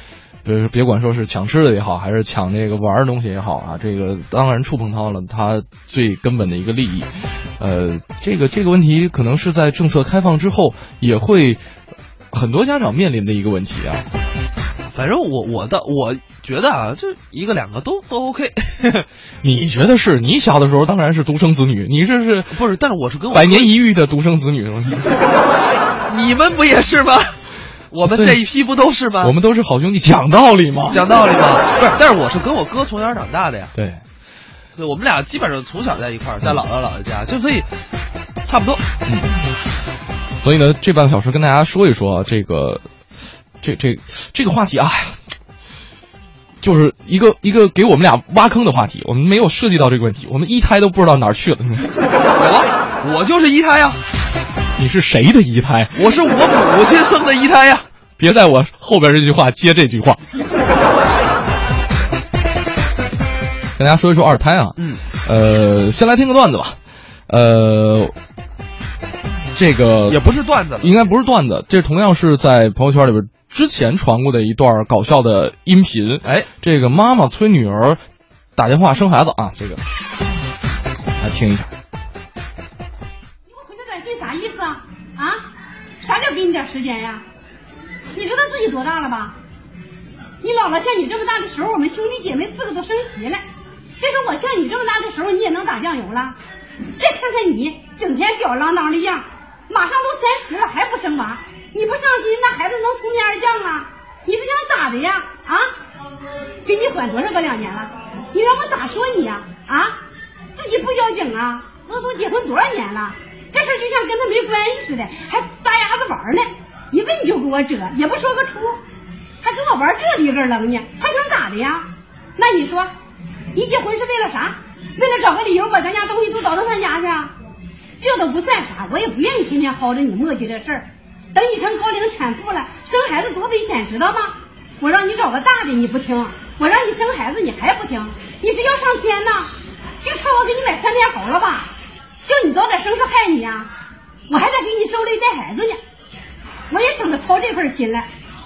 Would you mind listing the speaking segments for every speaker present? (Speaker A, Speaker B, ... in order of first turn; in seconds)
Speaker A: 0.4-11.6, 12.3-14.0, 19.4-22.6, 23.3-25.2, 28.1-28.4, 29.2-31.0, 33.7-34.0, 39.0-39.3, 40.4-42.9, 43.6-45.2, 46.6-51.9, 54.8-56.1, 58.2-60.2, 63.8-68.1, 69.5-70.2, 70.8-78.0, 78.6-79.8, 81.2-81.7
Speaker B: 14.9-19.1, 22.5-23.7, 26.1-29.3, 30.9-33.7, 34.8-37.7, 38.5-38.8, 52.4-54.0, 55.9-57.9, 64.8-65.0, 70.1-70.9
Speaker C: 83.5-85.4, 86.0-87.2, 88.1-89.4, 90.4-93.4, 94.0-96.3, 97.0-105.7, 106.7-109.9, 110.6-118.8, 119.4-121.8, 122.4-122.9, 123.5-127.3, 128.0-139.5, 140.0-141.7, 142.3-143.7, 144.3-145.8, 146.7-148.1